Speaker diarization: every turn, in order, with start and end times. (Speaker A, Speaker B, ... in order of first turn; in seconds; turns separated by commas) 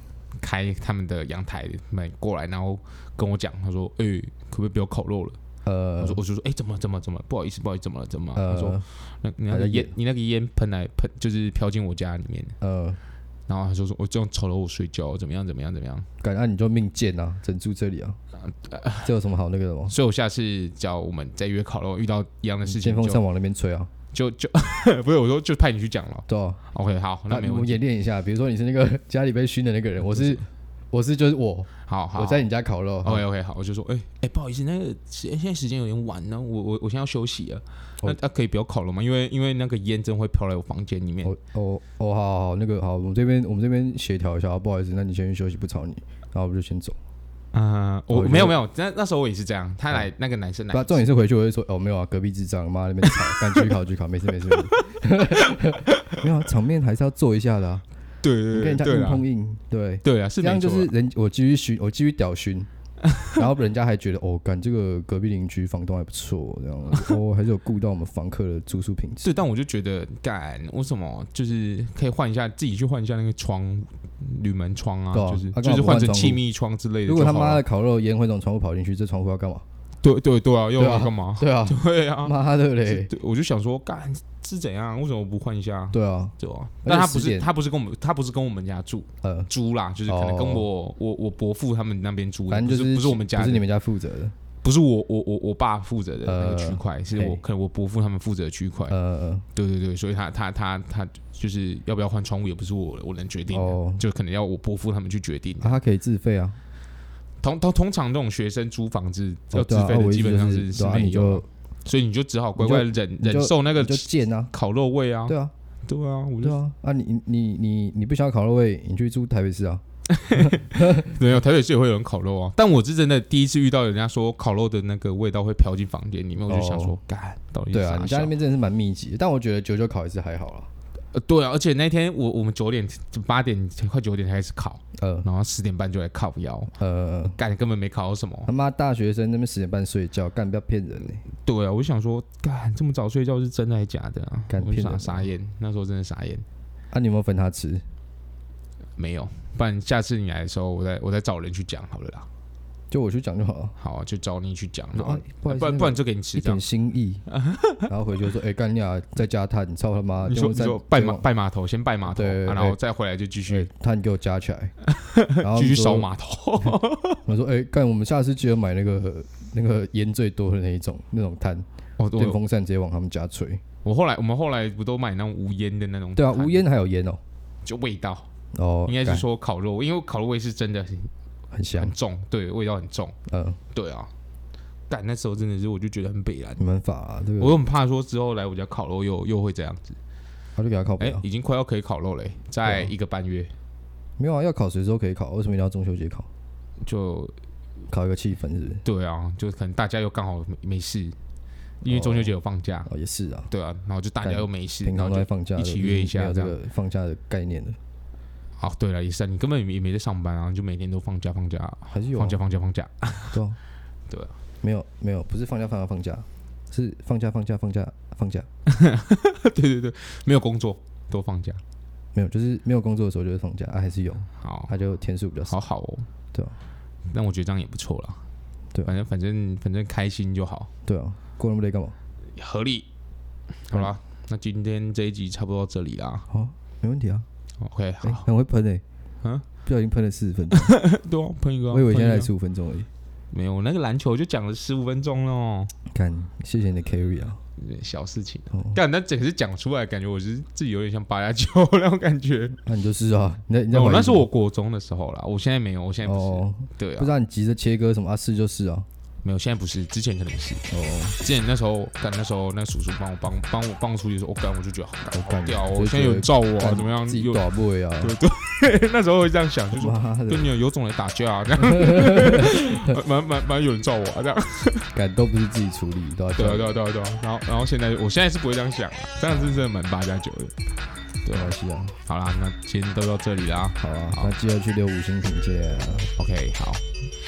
Speaker A: 0.4-5.4, Speaker B: 5.6-6.2, Speaker A: 6.0-12.5, Speaker B: 8.3-8.8, Speaker B: 9.5-9.9, Speaker B: 12.6-13.0, Speaker A: 13.5-16.1, Speaker B: 16.2-18.2, Speaker A: 18.4-19.1, Speaker B: 19.0-19.9, Speaker A: 19.9-23.2, Speaker B: 22.6-23.9, Speaker A: 24.1-27.8, Speaker B: 26.3-26.6, Speaker B: 27.3-33.2, Speaker A: 30.1-30.4, Speaker A: 31.9-32.5, Speaker A: 33.0-41.3, Speaker B: 41.2-47.0, Speaker A: 47.5-51.1, Speaker B: 48.1-48.6, Speaker B: 50.7-57.8, Speaker A: 53.2-53.6, Speaker A: 55.3-55.9, Speaker A: 58.2-59.3, Speaker B: 58.5-62.7, Speaker A: 60.0-60.9, Speaker A: 63.1-63.4, Speaker B: 63.3-69.3, Speaker A: 69.2-77.6, Speaker B: 75.1-76.4, Speaker B: 77.0-79.6, Speaker A: 80.0-93.6, Speaker B: 80.8-83.1, Speaker B: 85.9-87.5, Speaker B: 89.2-89.5, Speaker B: 90.1-90.7, Speaker B: 92.5-94.3, Speaker A: 94.6-99.0, Speaker B: 96.2-97.4, Speaker B: 98.9-99.5, Speaker A: 99.5-105.8, Speaker B: 103.5-104.0, Speaker B: 105.6-106.6, Speaker A: 107.4-115.3, Speaker B: 109.5-111.5, Speaker B: 112.6-114.5, Speaker B: 115.3-115.5, Speaker A: 115.9-116.6, Speaker B: 116.4-121.1, Speaker A: 120.1-128.3, Speaker B: 126.5-127.0, Speaker B: 127.7-130.7, Speaker A: 131.1-136.7, Speaker B: 135.0-135.3, Speaker B: 136.8-137.4, Speaker A: 137.3-138.5, Speaker B: 138.5-141.2, Speaker A: 141.4-146.4, Speaker B: 144.5-145.3, Speaker B: 146.9-147.8, Speaker A: 149.0-152.3, Speaker B: 152.9-153.8, Speaker A: 153.8-156.6, Speaker B: 154.9-157.3, Speaker A: 157.3-157.9, Speaker B: 157.9-161.2, Speaker A: 160.2-163.7, Speaker B: 162.1-162.8, Speaker B: 163.5-164.7, Speaker A: 164.8-167.2, Speaker B: 165.4-166.1, Speaker B: 167.2-173.6, Speaker A: 172.0-172.4, Speaker A: 173.8-176.6, Speaker B: 176.2-177.2, Speaker A: 177.6-178.3, Speaker B: 178.5-179.3, Speaker A: 178.8-181.1, Speaker B: 181.5-181.9, Speaker A: 181.8-183.2, Speaker B: 183.3-183.6, Speaker A: 183.7-184.1, Speaker A: 184.9-186.6, Speaker B: 186.6-187.6, Speaker A: 187.4-190.0, Speaker B: 190.6-191.2, Speaker A: 191.0-193.5, Speaker B: 192.7-192.9, Speaker B: 194.2-196.3, Speaker A: 196.8-197.3, Speaker B: 197.9-198.8, Speaker A: 198.8-201.2, Speaker A: 201.8-202.9, Speaker B: 201.9-202.3, Speaker B: 202.9-203.5, Speaker A: 203.5-206.6, Speaker B: 204.2-207.8, Speaker A: 208.6-213.4, Speaker B: 211.9-212.4, Speaker B: 213.3-213.6, Speaker A: 214.1-214.4, Speaker B: 214.6-218.5, Speaker A: 218.7-221.6, Speaker B: 222.1-225.6, Speaker A: 224.4-224.7, Speaker A: 225.5-226.1, Speaker A: 227.1-228.2, Speaker A: 228.8-230.7, Speaker B: 230.8-231.9, Speaker A: 232.4-232.9, Speaker A: 233.6-236.2, Speaker B: 236.3-237.2, Speaker A: 237.6-238.2, Speaker B: 238.0-238.8, Speaker B: 239.6-240.7, Speaker A: 240.5-242.3, Speaker B: 241.7-242.9, Speaker A: 243.3-245.7, Speaker B: 245.9-247.4, Speaker A: 247.6-252.6, Speaker B: 248.5-248.8, Speaker B: 252.6-254.3, Speaker A: 253.7-257.1, Speaker B: 256.1-258.9, Speaker A: 259.2-260.6, Speaker B: 260.7-261.2, Speaker A: 261.2-267.5, Speaker B: 265.1-268.2, Speaker A: 268.0-274.9, Speaker B: 269.8-270.5, Speaker B: 271.6-273.0, Speaker B: 274.9-276.8, Speaker A: 276.4-280.6, Speaker A: 281.2-281.5, Speaker B: 281.3-282.0, Speaker A: 282.1-284.3, Speaker B: 283.8-286.1, Speaker A: 286.2-286.8